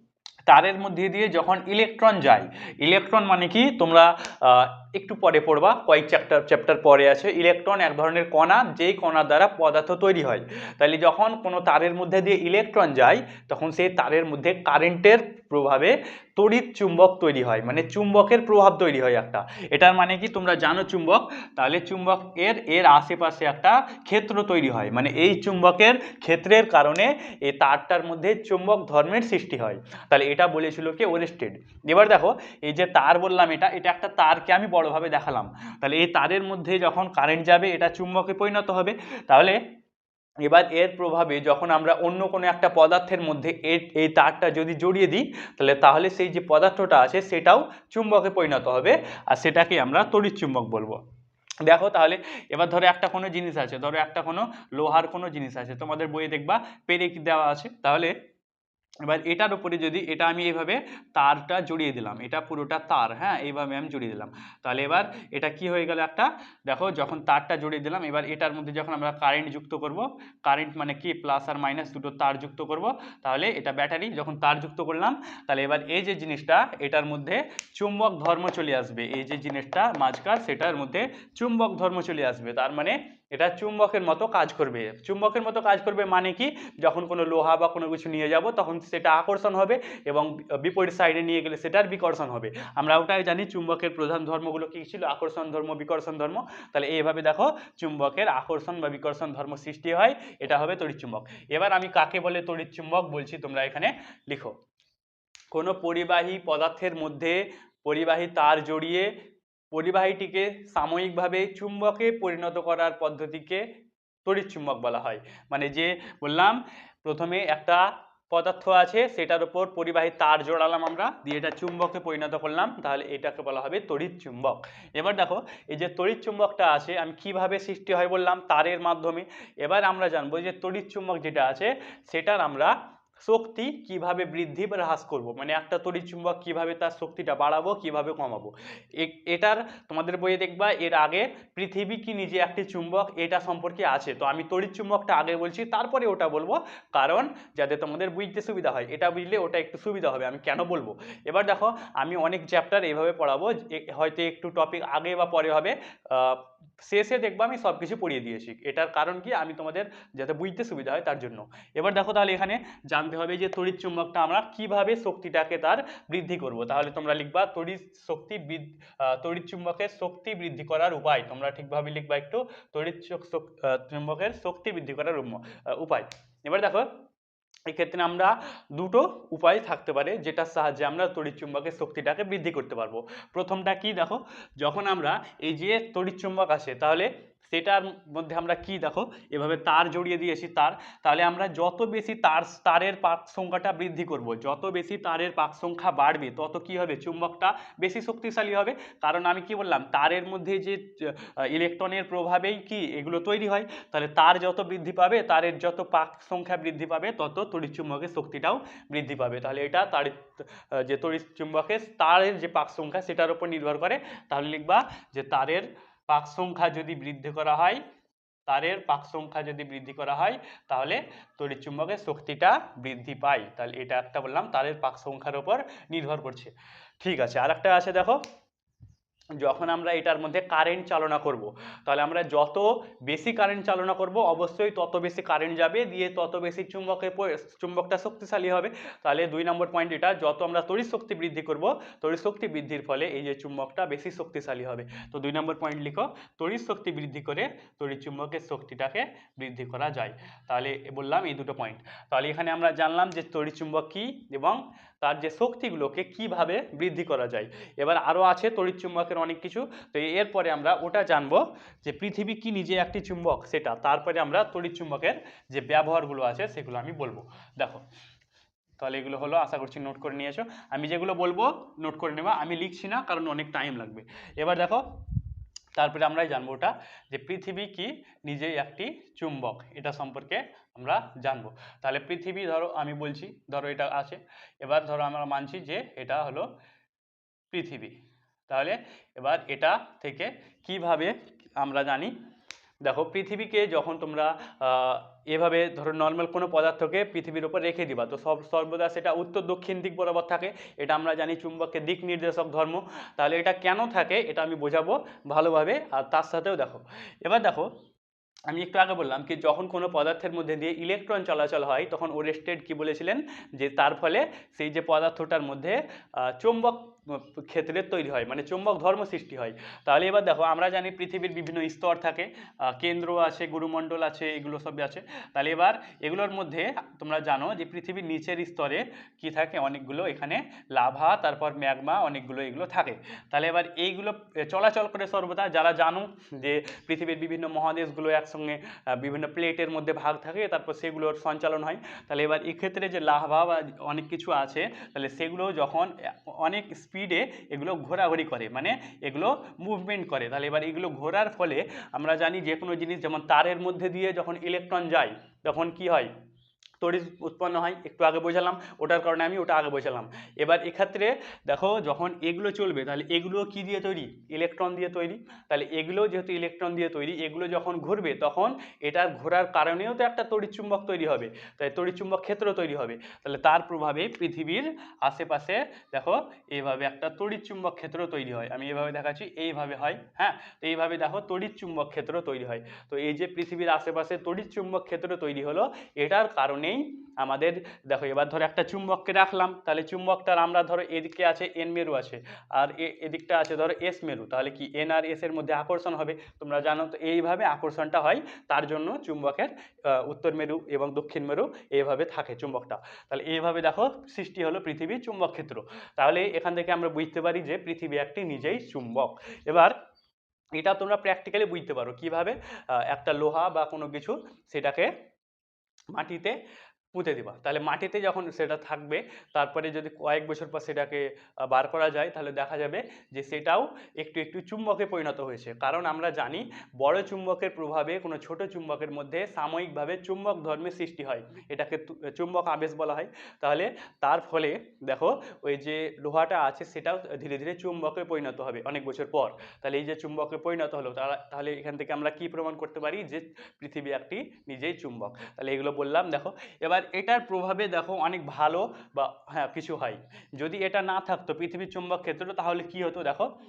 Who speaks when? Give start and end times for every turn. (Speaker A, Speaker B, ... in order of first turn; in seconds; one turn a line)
Speaker A: 0.5-39.6
Speaker A: 40.4-51.0
Speaker A: 51.6-58.1
Speaker A: 59.0-104.5
Speaker A: 105.5-109.1
Speaker A: 109.7-113.6
Speaker A: 114.2-176.9
Speaker A: 177.7-217.8
Speaker A: 218.5-228.2
Speaker A: 229.4-267.8
Speaker A: 268.8-274.9
Speaker A: 275.8-286.5
Speaker A: 287.5-287.9
Speaker A: 288.5-292.1
Speaker A: 292.8-307.7
Speaker A: 308.5-356.1
Speaker A: 356.8-409.7
Speaker A: 410.6-414.9
Speaker A: 415.9-416.4
Speaker A: 416.9-453.3